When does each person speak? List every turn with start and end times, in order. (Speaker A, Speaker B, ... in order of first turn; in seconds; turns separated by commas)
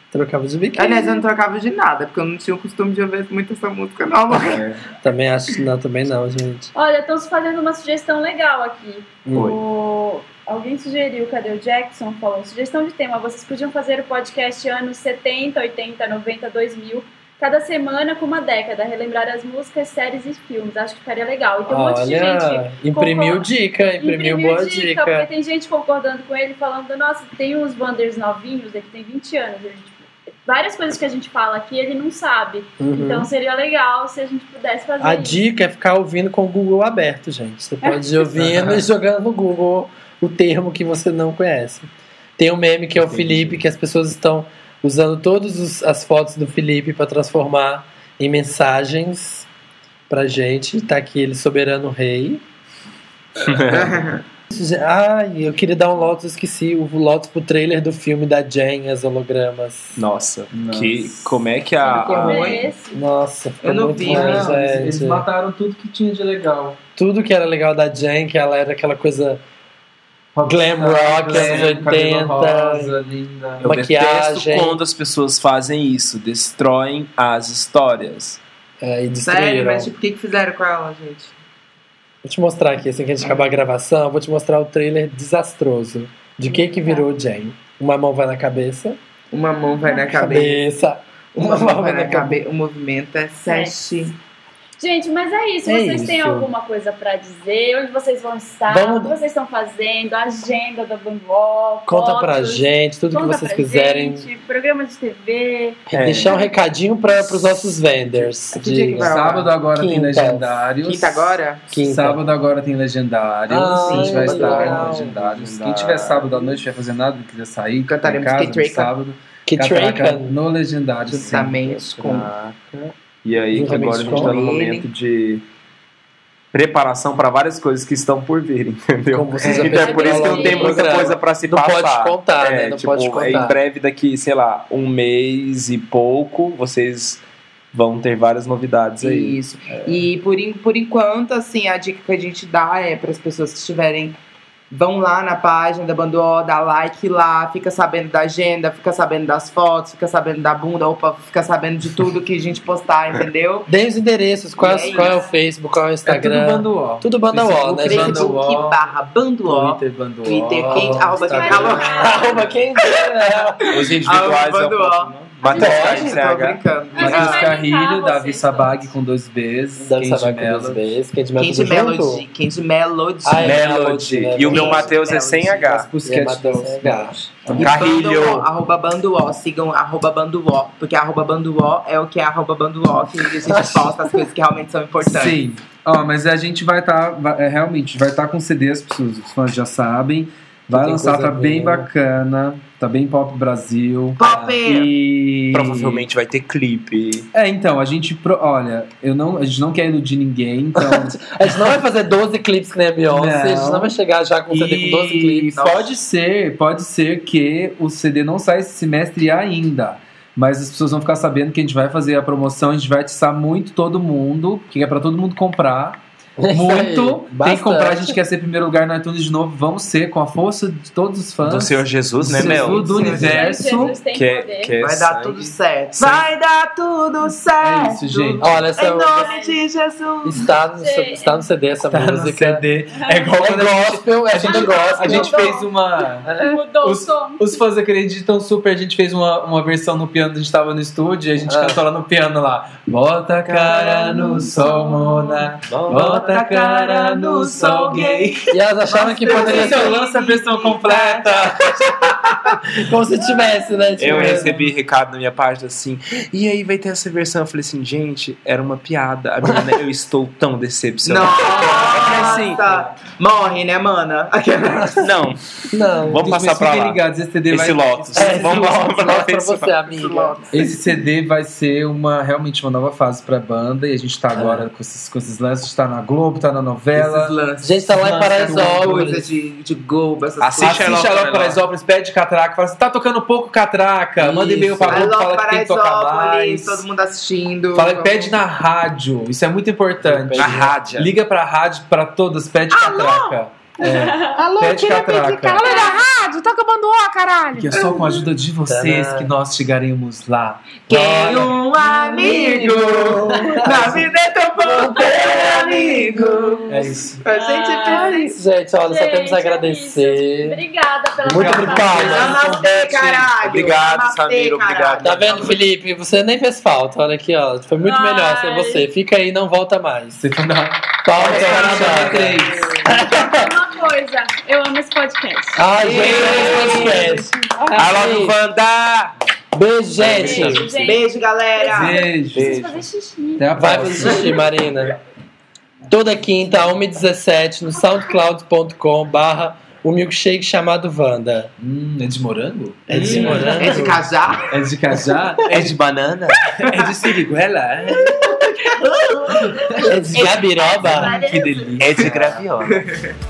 Speaker A: 0.1-1.2, Speaker B: 0.8-4.6, Speaker C: 4.3-4.8, Speaker A: 5.0-6.7, Speaker D: 6.7-35.4, Speaker A: 9.3-9.6, Speaker A: 21.7-25.3, Speaker A: 32.8-33.3, Speaker A: 35.0-41.9, Speaker D: 37.8-38.1, Speaker A: 42.4-49.5, Speaker E: 43.0-43.6, Speaker A: 50.1-52.4, Speaker C: 53.4-54.0, Speaker B: 53.7-54.2, Speaker A: 54.5-60.0, Speaker C: 60.0-62.6, Speaker E: 60.5-61.4, Speaker D: 61.8-62.9, Speaker B: 62.0-62.6, Speaker A: 62.9-65.3, Speaker B: 63.6-64.5, Speaker E: 64.1-66.8, Speaker A: 67.0-69.4, Speaker E: 70.3-73.7, Speaker A: 70.4-72.9, Speaker C: 71.2-71.7, Speaker C: 73.6-78.4, Speaker A: 73.6-74.8, Speaker A: 78.8-79.9, Speaker B: 79.3-81.3, Speaker A: 82.2-89.0, Speaker D: 86.5-87.0, Speaker B: 89.3-90.6, Speaker D: 89.6-90.1, Speaker A: 90.1-92.4, Speaker B: 91.3-94.1, Speaker D: 93.4-93.8, Speaker D: 94.8-105.9, Speaker A: 95.7-96.5, Speaker A: 98.7-99.1, Speaker A: 101.9-104.3, Speaker A: 105.9-110.7, Speaker C: 105.9-106.5, Speaker B: 108.5-109.5, Speaker E: 109.0-121.5, Speaker B: 110.8-111.6, Speaker A: 111.7-112.2, Speaker A: 113.5-115.1, Speaker B: 113.8-114.8, Speaker C: 114.3-116.6, Speaker B: 117.8-118.9, Speaker A: 119.5-120.4, Speaker B: 121.1-122.3, Speaker C: 121.2-122.7, Speaker C: 123.2-125.4, Speaker A: 123.5-124.3, Speaker B: 124.1-124.9, Speaker C: 126.5-137.2, Speaker A: 129.1-133.6, Speaker D: 129.6-131.1, Speaker C: 137.7-139.3, Speaker B: 139.0-144.2, Speaker B: 144.7-153.7, Speaker A: 153.7-158.3, Speaker B: 154.6-155.2, Speaker D: 154.8-155.2, Speaker E: 156.1-158.8, Speaker B: 157.8-167.5, Speaker E: 159.4-161.8, Speaker A: 160.5-163.6, Speaker D: 161.2-162.4, Speaker C: 163.6-166.6, Speaker D: 165.5-166.1, Speaker A: 165.5-166.2, Speaker D: 166.9-168.9, Speaker E: 167.0-170.9, Speaker A: 169.8-172.2, Speaker B: 171.4-173.6, Speaker A: 173.2-174.9, Speaker C: 173.4-175.9, Speaker B: 174.4-175.8, Speaker E: 175.6-177.9, Speaker A: 176.0-177.2, Speaker B: 177.5-185.4, Speaker C: 177.6-178.5, Speaker A: 183.4-184.2, Speaker E: 185.0-196.1, Speaker A: 190.7-191.9, Speaker B: 194.2-194.9, Speaker C: 195.5-197.3, Speaker E: 197.3-201.6, Speaker A: 200.8-205.6, Speaker E: 203.1-203.9, Speaker E: 204.5-216.0, Speaker B: 205.6-205.9, Speaker A: 216.4-218.2, Speaker E: 216.5-224.0, Speaker C: 221.4-223.2, Speaker B: 222.4-223.6, Speaker D: 222.9-224.8, Speaker C: 224.1-226.2, Speaker B: 224.8-230.5, Speaker E: 227.6-228.7, Speaker A: 228.4-229.3, Speaker D: 228.9-229.6, Speaker A: 230.2-232.7, Speaker D: 230.7-231.5, Speaker E: 231.8-236.3, Speaker D: 232.9-233.3, Speaker A: 233.3-235.6, Speaker D: 234.4-235.7, Speaker A: 236.2-236.6, Speaker D: 236.4-237.6, Speaker E: 236.8-248.5, Speaker A: 241.4-241.8, Speaker B: 243.5-244.6, Speaker D: 244.6-245.5, Speaker C: 245.7-246.3, Speaker B: 245.9-251.5, Speaker A: 248.5-250.0, Speaker E: 249.3-252.1, Speaker A: 251.8-254.6, Speaker C: 254.0-262.9, Speaker A: 259.4-259.7, Speaker B: 261.1-265.0, Speaker A: 261.5-262.0, Speaker A: 264.8-265.1, Speaker C: 265.0-265.4, Speaker A: 265.7-266.4, Speaker C: 266.1-269.8, Speaker E: 266.2-268.7, Speaker A: 268.1-270.4, Speaker B: 269.9-270.6, Speaker E: 270.5-277.4, Speaker A: 274.4-274.6, Speaker B: 276.9-281.1, Speaker A: 277.6-279.3, Speaker E: 278.3-278.9, Speaker C: 280.4-281.6, Speaker E: 280.6-286.9, Speaker B: 284.2-288.4, Speaker C: 284.7-285.1, Speaker E: 287.7-295.7, Speaker A: 290.0-290.7, Speaker C: 290.4-291.1, Speaker F: 292.7-298.2, Speaker D: 293.9-294.4, Speaker D: 295.6-296.0, Speaker E: 297.6-302.8, Speaker A: 298.6-299.3, Speaker B: 300.9-308.4, Speaker A: 300.9-301.6, Speaker A: 302.3-304.1, Speaker A: 304.6-306.6, Speaker E: 306.7-307.2, Speaker D: 307.3-308.3, Speaker A: 307.9-310.6, Speaker D: 308.9-312.5, Speaker E: 311.2-313.3, Speaker A: 311.2-312.4, Speaker B: 311.9-315.6, Speaker C: 313.4-315.6, Speaker A: 315.0-320.2, Speaker D: 317.8-318.9, Speaker E: 320.2-322.8, Speaker A: 321.0-323.6, Speaker B: 321.2-321.9, Speaker C: 321.2-322.0, Speaker B: 322.5-322.8, Speaker D: 322.9-325.7, Speaker A: 325.6-328.4, Speaker B: 325.8-327.3, Speaker C: 326.2-326.8, Speaker C: 327.8-329.1, Speaker A: 329.5-330.7, Speaker C: 330.0-330.8, Speaker E: 330.0-330.6, Speaker D: 330.2-333.6, Speaker B: 330.8-332.0, Speaker E: 331.6-332.6, Speaker C: 332.3-332.9, Speaker E: 333.4-334.4, Speaker A: 333.6-335.0, Speaker A: 335.9-341.5, Speaker E: 341.6-343.9, Speaker A: 342.9-344.0, Speaker B: 342.9-344.4, Speaker E: 344.5-345.8, Speaker C: 345.5-346.5, Speaker E: 346.5-348.3, Speaker B: 348.7-353.1, Speaker E: 349.3-350.2, Speaker A: 349.8-351.2, Speaker E: 350.8-352.4, Speaker C: 351.8-352.9